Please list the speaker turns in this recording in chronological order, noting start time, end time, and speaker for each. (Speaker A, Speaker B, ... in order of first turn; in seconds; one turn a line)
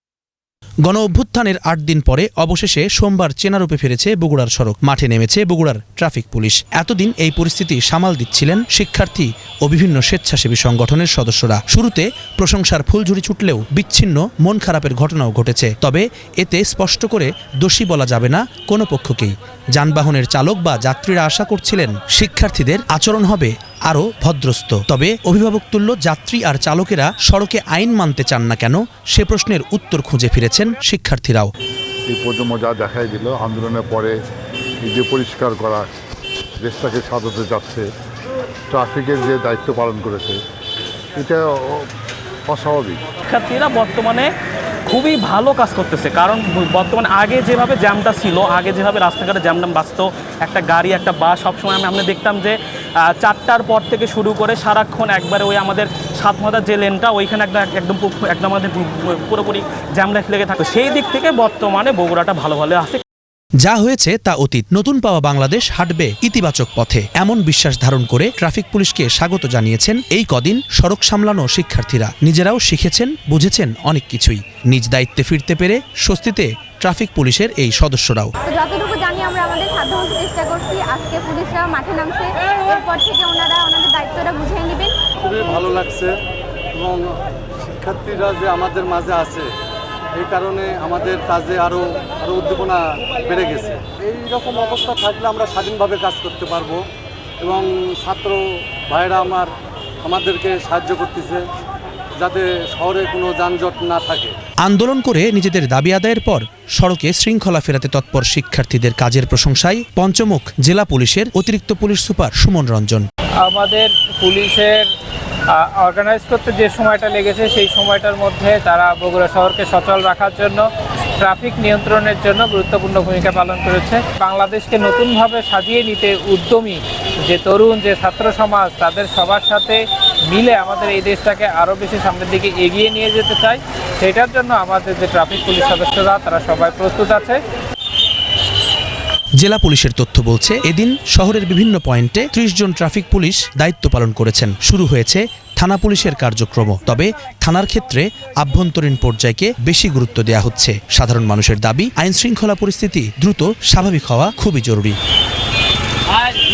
Speaker A: 0.8-31.5
Speaker B: 32.1-34.1
Speaker B: 34.8-35.9
Speaker B: 36.6-37.9
Speaker B: 38.7-40.4
Speaker B: 41.1-41.9
Speaker B: 42.5-43.0
Speaker C: 43.3-44.3
Speaker C: 44.9-63.0
Speaker A: 63.6-78.3
Speaker D: 78.4-84.9
Speaker E: 85.2-86.1
Speaker E: 86.7-89.5
Speaker E: 90.1-96.8
Speaker E: 97.4-99.5
Speaker E: 100.0-101.4
Speaker E: 102.2-104.3
Speaker A: 104.6-113.0
Speaker F: 113.4-114.9
Speaker F: 115.5-137.4
Speaker A: 139.4-155.0